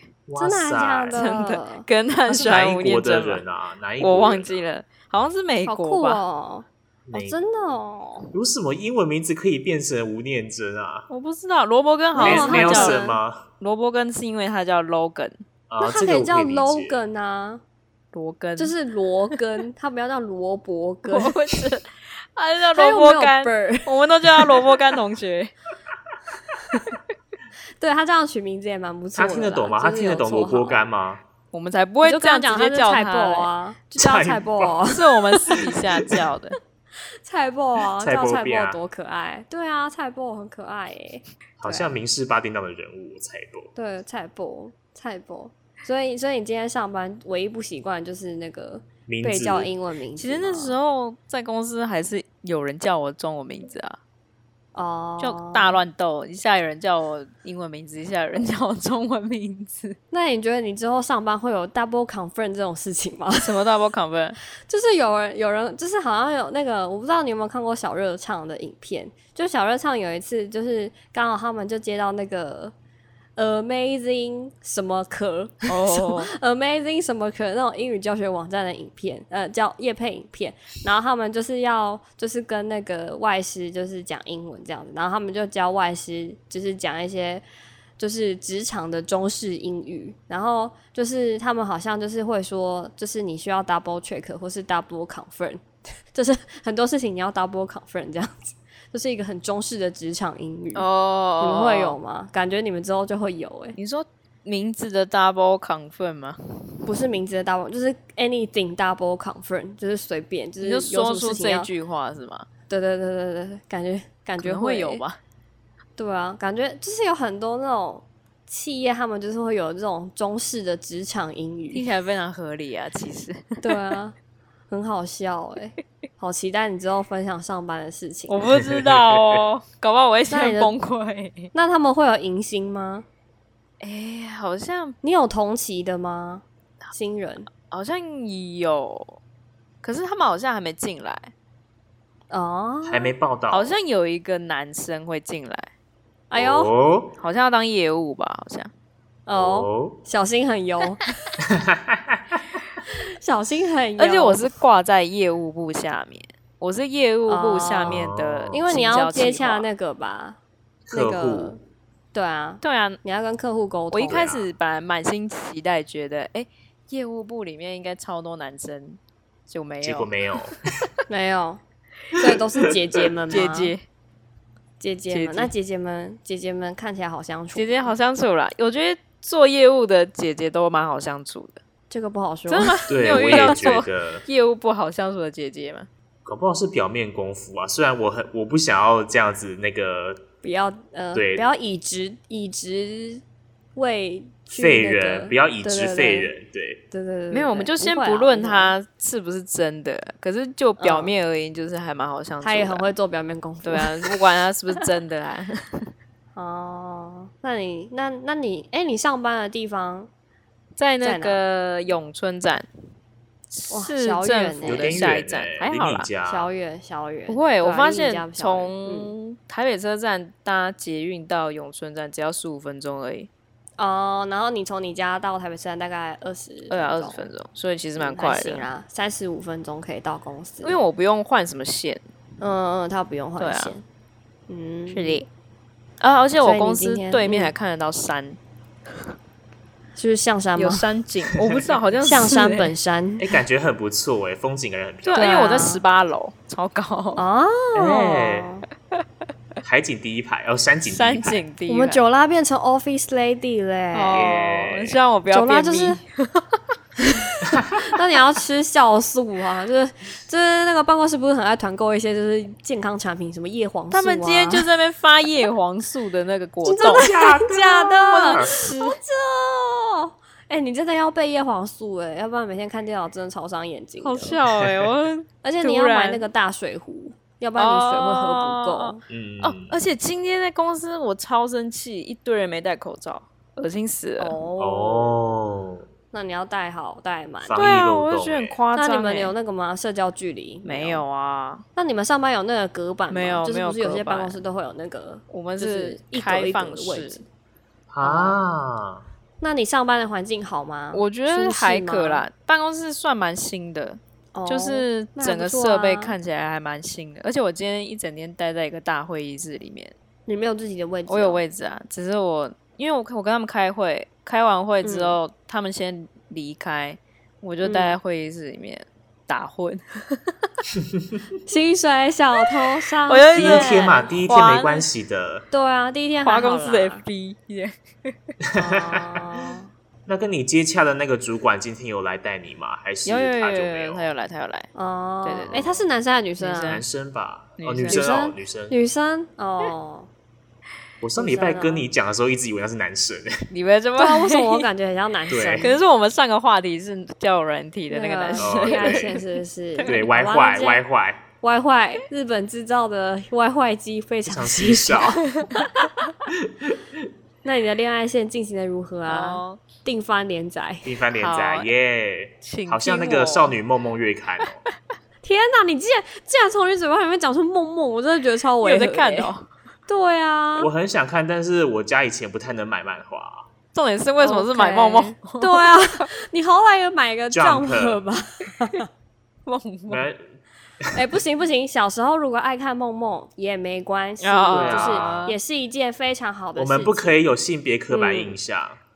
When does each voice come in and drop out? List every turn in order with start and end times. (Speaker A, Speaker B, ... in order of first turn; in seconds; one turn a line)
Speaker A: 0.3-1.2
Speaker B: 0.4-1.9
Speaker C: 1.1-3.4
Speaker A: 2.3-4.7
Speaker C: 4.0-6.2
Speaker B: 5.7-8.3
Speaker A: 7.1-7.4
Speaker A: 8.3-11.1
Speaker C: 11.1-13.0
Speaker B: 12.2-13.2
Speaker A: 12.2-13.4
Speaker C: 13.6-15.4
Speaker A: 15.7-17.0
Speaker B: 15.8-17.6
Speaker C: 18.1-18.8
Speaker B: 18.6-21.4
Speaker C: 21.1-25.5
Speaker B: 22.8-24.7
Speaker B: 27.8-30.8
Speaker A: 29.1-31.2
Speaker C: 31.5-33.5
Speaker B: 32.0-35.7
Speaker A: 34.0-34.8
Speaker C: 34.9-36.6
Speaker B: 37.2-42.0
Speaker A: 38.0-38.8
Speaker A: 41.6-43.7
Speaker B: 43.8-50.8
Speaker A: 49.1-49.7
Speaker C: 50.2-54.0
Speaker B: 54.8-55.8
Speaker C: 55.2-60.0
Speaker B: 60.1-63.7
Speaker C: 63.4-64.4
Speaker B: 64.7-72.7
Speaker B: 73.4-87.4
Speaker C: 75.7-76.3
Speaker B: 88.0-100.9
Speaker C: 100.8-102.0
Speaker B: 101.4-103.8
Speaker C: 103.8-106.9
Speaker B: 106.8-111.7
Speaker C: 110.6-112.5
Speaker B: 112.7-115.0
Speaker C: 114.4-115.2
Speaker B: 116.0-121.9
Speaker C: 121.7-123.9
Speaker B: 123.6-124.2
Speaker B: 124.7-128.4
Speaker C: 128.3-131.5
Speaker A: 128.5-129.4
Speaker B: 130.3-130.7
Speaker B: 131.5-133.1
Speaker C: 133.8-135.0
Speaker B: 135.0-137.5
Speaker C: 137.6-139.2
Speaker C: 139.8-141.3
Speaker B: 142.3-143.1
Speaker A: 142.9-143.8
Speaker C: 143.5-145.7
Speaker B: 146.3-146.7
Speaker A: 146.3-147.1
Speaker C: 147.2-148.7
Speaker B: 149.3-151.1
Speaker A: 149.3-150.0
Speaker A: 151.4-152.6
Speaker B: 153.1-154.5
Speaker C: 154.0-159.7
Speaker B: 157.3-158.0
Speaker A: 157.8-158.6
Speaker B: 158.5-160.4
Speaker A: 160.9-161.6
Speaker B: 160.9-161.6
Speaker B: 162.1-164.3
Speaker C: 162.6-163.0
Speaker C: 163.9-170.1
Speaker A: 164.1-164.5
Speaker A: 169.8-170.9
Speaker B: 171.1-171.6
Speaker B: 172.1-173.8
Speaker C: 173.3-173.8
Speaker B: 174.8-177.9
Speaker C: 175.1-175.5
Speaker C: 177.6-181.6
Speaker B: 181.9-183.6
Speaker C: 182.5-185.9
Speaker A: 182.9-184.2
Speaker A: 186.2-190.2
Speaker B: 190.4-193.2
Speaker A: 191.1-191.4
Speaker B: 193.8-196.3
Speaker A: 194.5-196.8
Speaker B: 196.9-198.7
Speaker C: 197.3-202.9
Speaker B: 200.8-201.1
Speaker B: 202.4-204.2
Speaker C: 203.6-205.9
Speaker B: 206.4-210.1
Speaker C: 210.8-212.7
Speaker B: 211.0-211.4
Speaker C: 213.5-216.1
Speaker B: 213.7-215.1
Speaker A: 214.6-216.5
Speaker B: 216.2-219.1
Speaker C: 217.3-223.3
Speaker B: 223.8-227.3
Speaker C: 226.7-228.7
Speaker B: 228.0-230.8
Speaker C: 230.6-232.0
Speaker B: 232.4-233.8
Speaker C: 233.4-233.8
Speaker B: 234.5-235.2
Speaker C: 234.9-235.3
Speaker C: 236.0-238.4
Speaker B: 236.4-237.5
Speaker B: 240.0-240.9
Speaker C: 240.6-242.7
Speaker B: 242.0-243.2
Speaker A: 243.2-245.4
Speaker C: 245.0-247.2
Speaker B: 245.2-245.8
Speaker B: 247.2-248.7
Speaker A: 247.7-248.5
Speaker A: 249.6-251.4
Speaker C: 250.9-252.0
Speaker B: 251.7-254.3
Speaker C: 253.9-256.6
Speaker A: 254.1-255.0
Speaker B: 255.3-256.0
Speaker B: 257.1-264.7
Speaker A: 257.4-257.7
Speaker C: 263.9-267.1
Speaker B: 266.6-274.4
Speaker A: 266.8-268.5
Speaker C: 268.1-269.0
Speaker C: 274.0-276.3
Speaker B: 275.4-279.0
Speaker C: 277.6-284.4
Speaker A: 279.1-279.8
Speaker B: 284.2-285.1
Speaker A: 284.6-285.9
Speaker B: 286.1-287.7
Speaker A: 287.4-288.6
Speaker C: 287.6-289.3
Speaker B: 288.7-291.0
Speaker C: 290.6-291.6
Speaker B: 291.8-297.2
Speaker C: 293.1-294.4
Speaker C: 295.3-297.2
Speaker A: 297.9-299.0
Speaker B: 298.0-298.4
Speaker B: 299.4-302.3
Speaker C: 300.9-309.9
Speaker B: 304.3-306.2
Speaker B: 310.3-311.4
Speaker C: 311.1-320.5
Speaker B: 314.8-315.2
Speaker B: 317.6-318.0
Speaker B: 321.5-324.1
Speaker C: 323.1-324.9
Speaker A: 323.4-325.4
Speaker B: 325.5-327.0
Speaker C: 326.2-328.2
Speaker A: 328.4-329.3
Speaker B: 328.6-329.7
Speaker A: 330.1-334.1
Speaker C: 333.1-334.7
Speaker B: 334.8-336.8
Speaker C: 335.2-335.7
Speaker A: 335.5-335.8
Speaker C: 336.4-336.8
Speaker A: 336.7-338.8
Speaker C: 337.6-338.1
Speaker B: 337.9-340.1
Speaker A: 341.0-343.4
Speaker B: 341.2-341.9
Speaker C: 343.5-344.7
Speaker B: 344.0-345.8
Speaker A: 345.3-345.7
Speaker C: 345.6-349.2
Speaker B: 347.9-350.8
Speaker A: 348.4-349.2
Speaker C: 349.8-350.1
Speaker A: 349.8-351.2
Speaker B: 351.4-355.9
Speaker A: 354.3-355.4
Speaker A: 356.4-356.8
Speaker B: 357.4-360.9
Speaker C: 359.1-359.6
Speaker A: 360.8-364.6
Speaker C: 361.1-361.7
Speaker C: 362.4-363.6
Speaker B: 365.2-369.3
Speaker C: 368.6-369.5
Speaker B: 369.9-370.7
Speaker A: 370.6-373.5
Speaker C: 373.7-376.1
Speaker B: 374.2-378.9
Speaker A: 377.3-378.0
Speaker C: 379.5-380.1
Speaker A: 379.9-380.3
Speaker B: 380.9-387.1
Speaker C: 384.2-385.4
Speaker A: 384.5-385.3
Speaker A: 386.6-388.8
Speaker B: 387.9-388.4